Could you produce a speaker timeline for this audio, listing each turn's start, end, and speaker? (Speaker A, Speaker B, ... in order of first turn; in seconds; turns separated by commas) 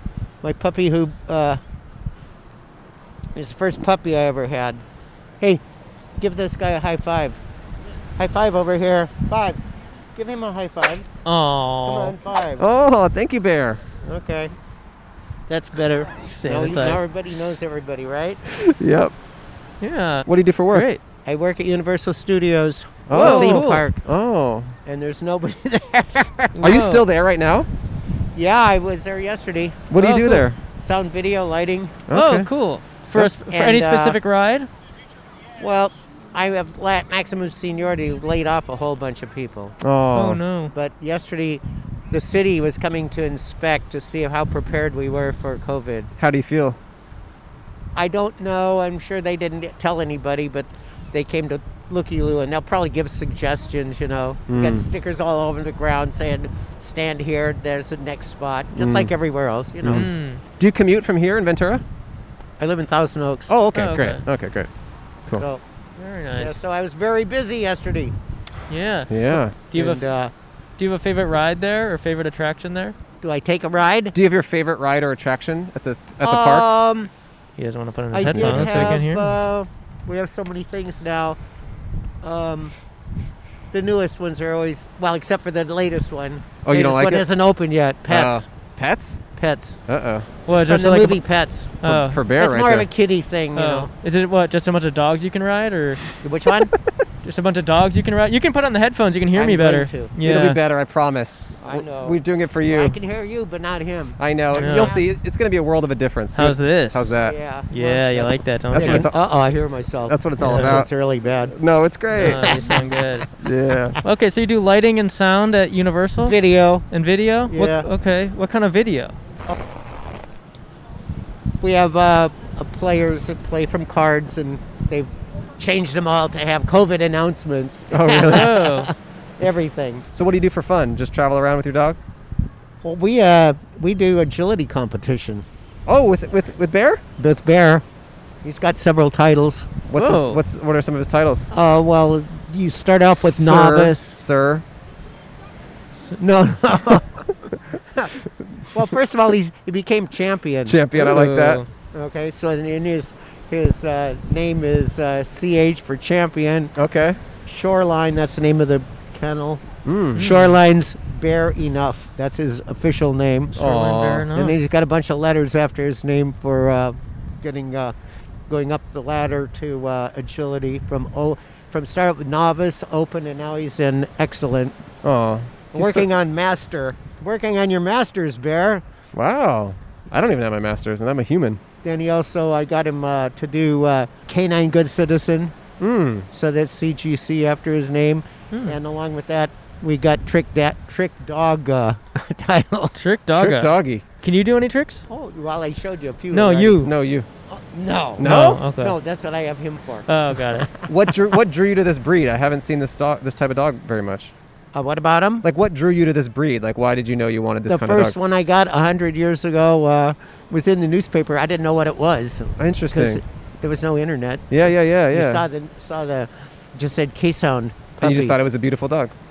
Speaker A: 0.4-1.6, Speaker A: 3.4-4.8, Speaker A: 6.2-7.4, Speaker A: 8.2-9.6, Speaker A: 10.2-11.1, Speaker B: 11.2-12.2, Speaker A: 11.8-12.7, Speaker C: 12.6-13.8, Speaker A: 14.0-14.5, Speaker A: 15.5-18.4, Speaker B: 16.2-17.0, Speaker C: 18.5-19.1, Speaker B: 19.8-21.0, Speaker C: 20.3-20.9, Speaker A: 21.3-24.0, Speaker C: 23.1-24.8, Speaker B: 23.1-23.9, Speaker A: 24.9-26.6, Speaker B: 26.6-27.1, Speaker C: 26.6-27.7, Speaker A: 28.4-29.9, Speaker C: 29.9-30.6, Speaker B: 29.9-30.5, Speaker A: 30.6-32.1, Speaker C: 32.1-32.5, Speaker B: 32.1-34.7, Speaker A: 33.4-34.2, Speaker A: 35.6-39.8, Speaker C: 39.8-40.4, Speaker B: 40.1-40.7, Speaker A: 40.7-46.1, Speaker C: 46.2-46.8, Speaker A: 48.0-60.1, Speaker C: 54.5-54.9, Speaker C: 58.7-59.1, Speaker C: 59.8-61.9, Speaker B: 59.8-60.4, Speaker A: 62.6-63.6, Speaker C: 63.5-64.7, Speaker B: 63.7-64.2, Speaker A: 65.3-65.6, Speaker B: 66.0-66.6, Speaker A: 66.3-68.2, Speaker B: 68.7-70.1, Speaker C: 69.1-69.6, Speaker A: 69.7-70.3, Speaker B: 70.8-73.0, Speaker A: 73.2-74.2, Speaker C: 74.1-76.7, Speaker A: 76.2-77.1, Speaker B: 77.6-79.3, Speaker A: 78.1-81.4, Speaker C: 78.2-79.1, Speaker A: 82.2-82.7, Speaker A: 83.7-88.5, Speaker C: 86.6-87.3, Speaker C: 88.1-89.2, Speaker A: 89.3-89.8, Speaker C: 89.9-90.3, Speaker B: 90.5-91.2, Speaker A: 90.5-93.9, Speaker B: 91.8-92.2, Speaker C: 91.8-92.9, Speaker B: 93.5-96.0, Speaker A: 96.2-96.7, Speaker B: 97.2-100.6, Speaker A: 99.3-100.2, Speaker C: 100.2-103.0, Speaker A: 101.6-105.1, Speaker C: 104.2-107.4, Speaker B: 104.5-105.0, Speaker B: 106.3-107.2, Speaker A: 107.1-111.5, Speaker B: 107.7-109.1, Speaker C: 108.7-109.2, Speaker C: 110.1-110.9, Speaker B: 110.4-110.8, Speaker C: 111.5-112.7, Speaker B: 112.1-113.3, Speaker A: 112.2-112.9, Speaker C: 113.4-114.0, Speaker B: 114.0-116.4, Speaker A: 116.2-116.9, Speaker B: 116.9-119.2, Speaker A: 117.5-117.9, Speaker A: 121.6-130.1, Speaker C: 127.9-128.7, Speaker B: 128.2-128.9, Speaker C: 130.1-132.0, Speaker A: 132.8-135.4, Speaker C: 135.9-137.0, Speaker A: 137.2-137.8, Speaker A: 138.4-139.8, Speaker C: 139.9-141.5, Speaker B: 139.9-140.4, Speaker A: 141.5-144.2, Speaker C: 143.2-144.7, Speaker A: 146.2-148.1, Speaker A: 148.7-150.8, Speaker C: 150.7-151.6, Speaker B: 150.9-151.7, Speaker A: 151.9-156.7, Speaker C: 156.8-157.2, Speaker A: 157.5-159.7, Speaker C: 159.8-160.4, Speaker B: 160.2-160.6, Speaker A: 160.2-163.6, Speaker B: 163.5-164.6, Speaker C: 163.6-164.3, Speaker A: 164.3-167.9, Speaker A: 168.5-174.8, Speaker C: 175.0-176.1, Speaker A: 175.7-178.8, Speaker C: 179.1-181.6, Speaker A: 181.8-185.6, Speaker C: 185.8-186.3, Speaker A: 186.3-193.0, Speaker B: 188.5-188.8, Speaker B: 193.0-195.0, Speaker C: 193.3-194.0, Speaker A: 195.1-196.9, Speaker B: 196.3-196.9, Speaker C: 196.8-197.3, Speaker A: 197.5-201.2, Speaker C: 198.2-198.7, Speaker B: 198.2-199.0, Speaker B: 200.1-200.7, Speaker C: 200.9-204.3, Speaker A: 204.7-205.4, Speaker C: 205.4-208.2, Speaker A: 207.7-218.4, Speaker C: 212.6-213.2, Speaker C: 214.5-215.4, Speaker C: 218.0-219.1